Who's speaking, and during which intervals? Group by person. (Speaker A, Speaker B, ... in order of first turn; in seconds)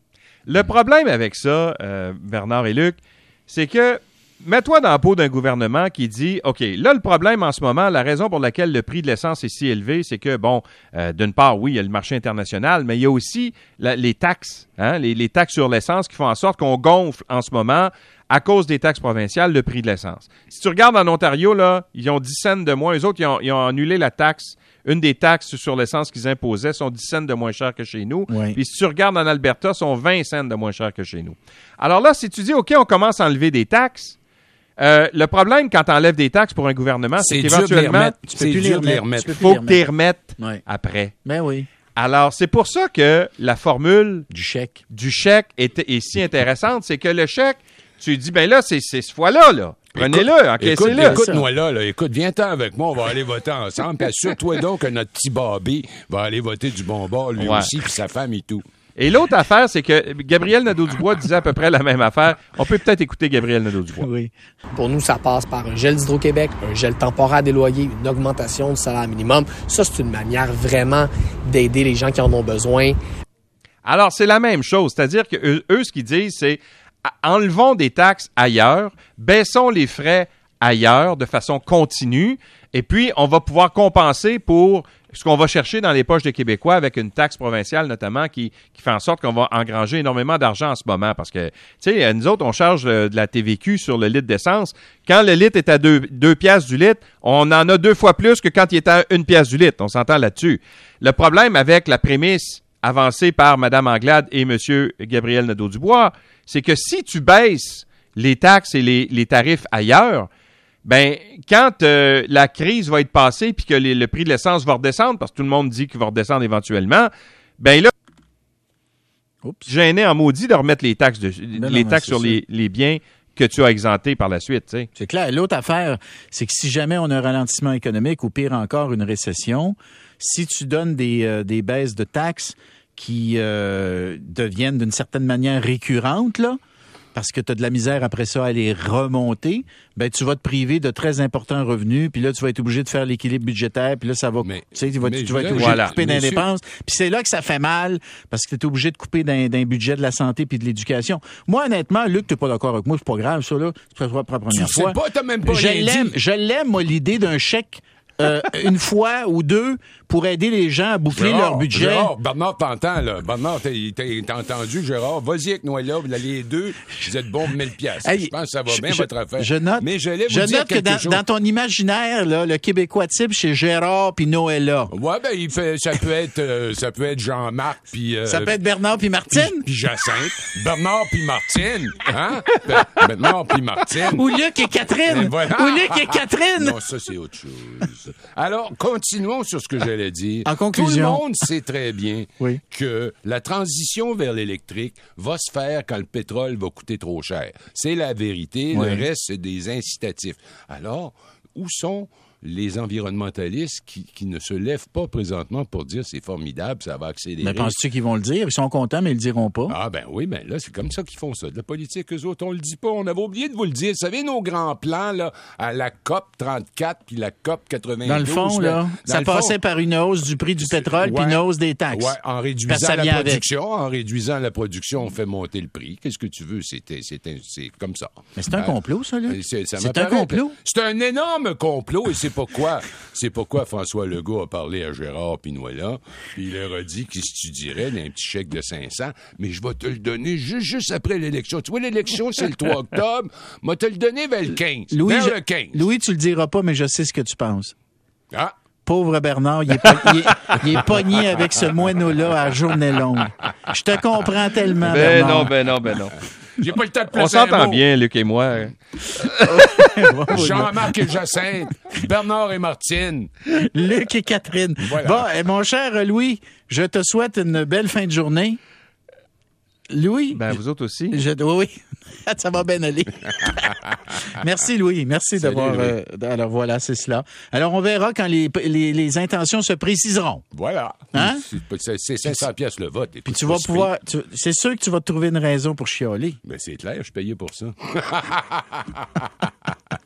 Speaker A: 0.5-34.2, 34.8-38.1, 39.4-41.1, 42.0-44.3, 44.9-51.2, 57.4-57.7, 59.0-64.1, 73.8-110.3, 110.8-117.9, 119.7-124.9, 145.6-146.0, 254.8-256.1, 257.1-260.2, 270.3-271.2
Speaker B: 28.3-28.6, 38.3-39.9, 40.4-40.6, 41.2-41.7, 44.3-44.8, 50.9-51.5, 64.0-64.3, 119.4-119.7, 121.5-122.4, 125.0-136.6, 137.2-162.1, 168.0-174.9, 178.3-179.7, 184.0-186.8, 190.4-191.3, 198.7-199.1, 207.4-209.8, 218.0-223.4, 228.4-230.5, 244.9-247.7, 248.9-255.5, 259.5-261.1, 263.6-268.6, 269.9-270.6, 271.1-273.8, 274.4-280.4, 281.1-281.4, 283.2-286.4
Speaker C: 37.2-39.5, 49.9-58.6, 144.4-146.5, 154.5-156.2, 161.1-171.2, 174.9-178.6, 179.3-184.3, 185.1-207.8, 209.7-219.6, 220.6-245.9, 256.6-257.8, 260.3-263.3, 264.8-265.3, 275.4-275.9, 280.5-283.9, 286.4-289.7
Speaker D: 64.7-73.0